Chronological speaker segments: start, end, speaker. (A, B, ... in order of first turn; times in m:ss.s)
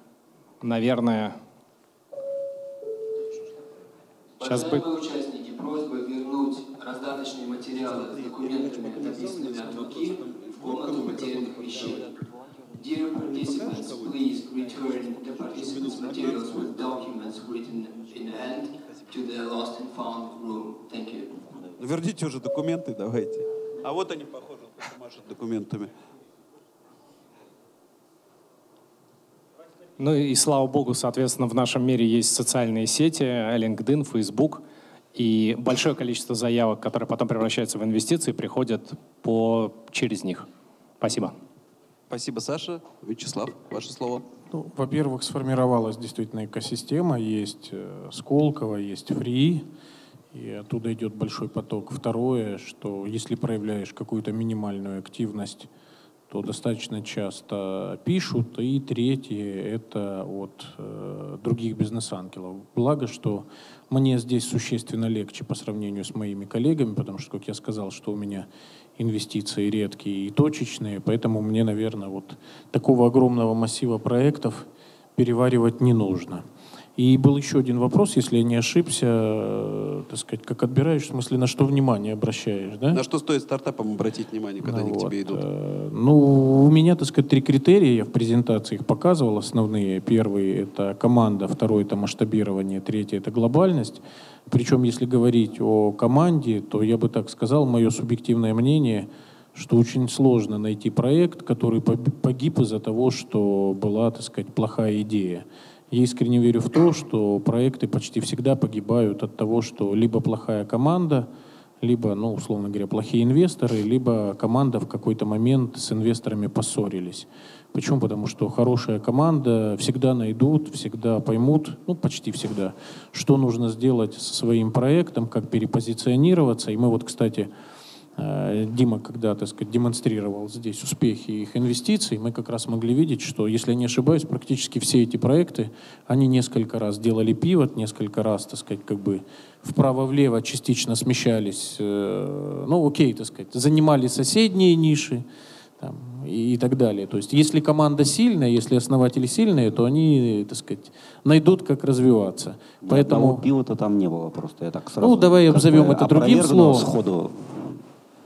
0:00.6-0:01.4 A
0:04.4-0:12.1 B
0:08.0-0:12.0 C
0:12.8-0:21.4 B
0:13.4-0:14.2 C
0:15.5-0:16.7 C
0:21.8-0:25.9 C
0:30.0-0:34.6 A
0:35.1-0:40.5 A
0:41.0-0:41.4 A
0:42.1-0:44.3 C
0:44.5-0:49.7 D
0:50.3-0:55.7 D
0:56.3-1:16.4 D
1:17.0-1:23.0 D
1:22.9-1:25.4 C
1:24.6-1:51.3 D
1:51.8-2:07.5 D
2:08.2-2:25.3 D
2:25.8-2:33.5 D
2:32.8-2:37.8 E
2:35.0-2:36.9 D